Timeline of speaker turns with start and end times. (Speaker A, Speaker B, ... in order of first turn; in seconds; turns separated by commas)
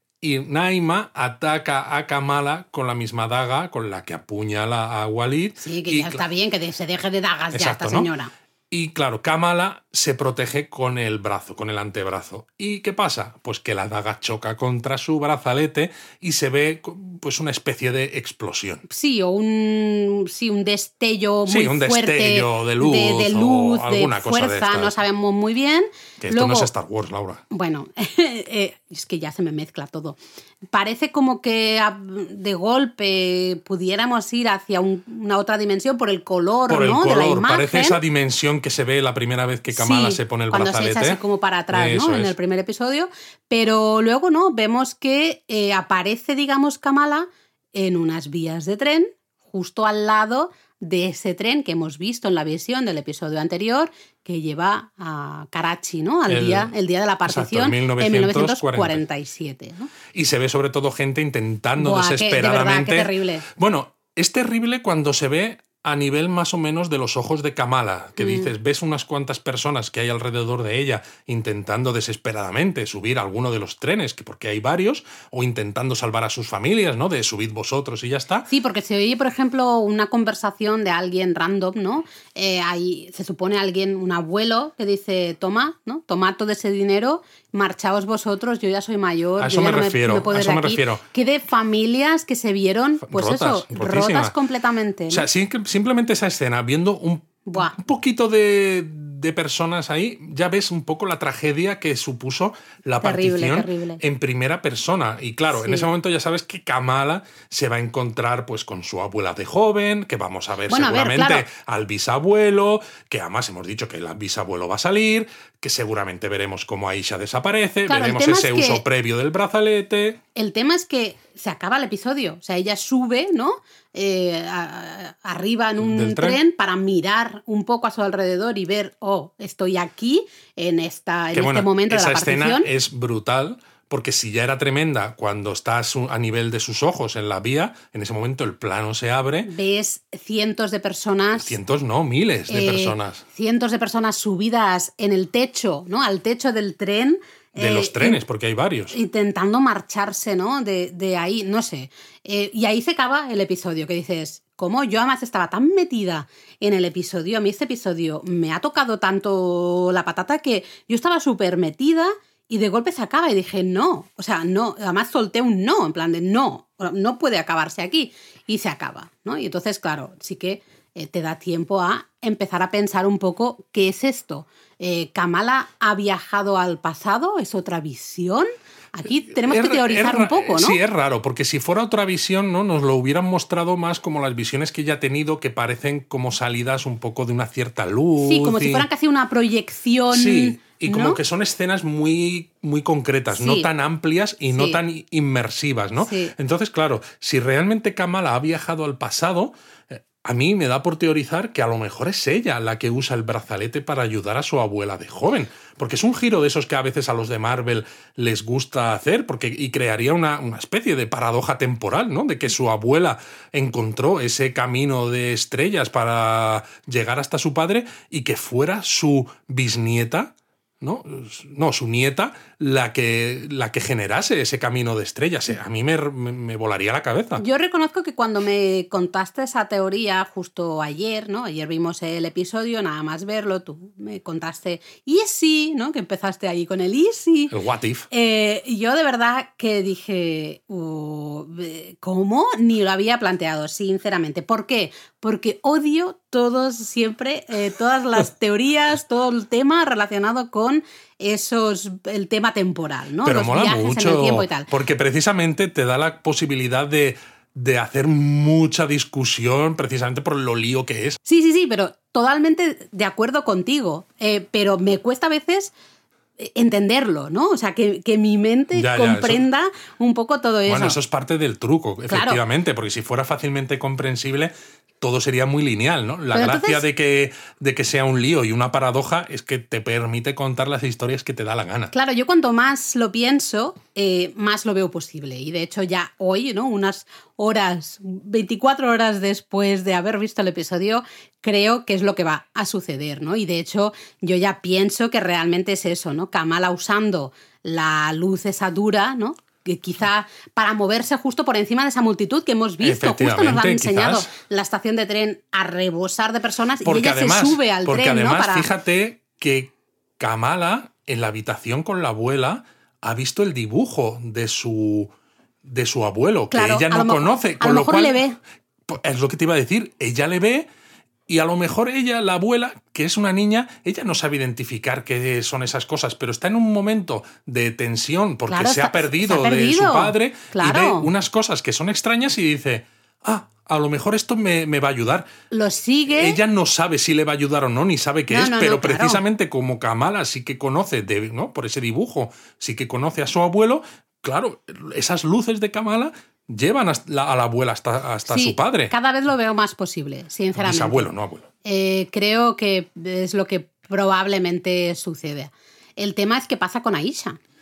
Speaker A: 0.2-6.2, Speaker B: 5.6-8.3, Speaker A: 7.5-8.1, Speaker A: 8.7-18.8, Speaker B: 18.9-26.7, Speaker A: 21.5-24.9, Speaker A: 26.2-27.4, Speaker B: 27.5-30.2, Speaker B: 30.7-38.0, Speaker A: 36.7-41.2, Speaker B: 39.7-59.9, Speaker A: 41.7-42.3, Speaker A: 56.3-56.7, Speaker A: 57.2-59.0, Speaker A: 60.1-78.5, Speaker B: 61.8-63.5, Speaker B: 68.2-68.5, Speaker B: 78.5-95.3, Speaker A: 89.4-91.0, Speaker A: 93.0-94.4, Speaker A: 95.1-120.2, Speaker B: 97.5-97.8, Speaker B: 103.0-104.0, Speaker B: 105.5-105.9, Speaker B: 110.7-111.5, Speaker B: 117.9-118.8, Speaker B: 120.3-132.7, Speaker A: 125.8-126.4, Speaker A: 131.3-139.5, Speaker B: 139.4-141.6, Speaker A: 141.4-143.2, Speaker B: 142.5-148.2, Speaker A: 147.6-149.0, Speaker B: 148.9-180.8, Speaker A: 179.3-188.8, Speaker B: 188.2-191.2, Speaker A: 190.1-227.4, Speaker B: 193.3-193.7, Speaker B: 194.5-194.8, Speaker B: 196.0-196.3, Speaker B: 227.4-237.6, Speaker A: 237.5-238.1, Speaker B: 238.1-254.7, Speaker A: 253.2-261.2, Speaker B: 261.3-265.7, Speaker B: 266.4-271.0, Speaker A: 268.7-269.4, Speaker A: 270.7-281.9, Speaker B: 272.1-272.4, Speaker B: 276.3-276.8, Speaker B: 281.9-308.7, Speaker A: 302.8-304.3, Speaker A: 306.8-315.1, Speaker A: 315.6-318.2, Speaker B: 316.5-318.4, Speaker A: 318.9-320.7, Speaker A: 321.3-335.3, Speaker B: 328.5-331.1, Speaker B: 335.5-336.4, Speaker A: 336.1-348.9, Speaker B: 338.3-339.2, Speaker B: 348.3-351.1, Speaker A: 350.6-351.5, Speaker B: 351.6-357.4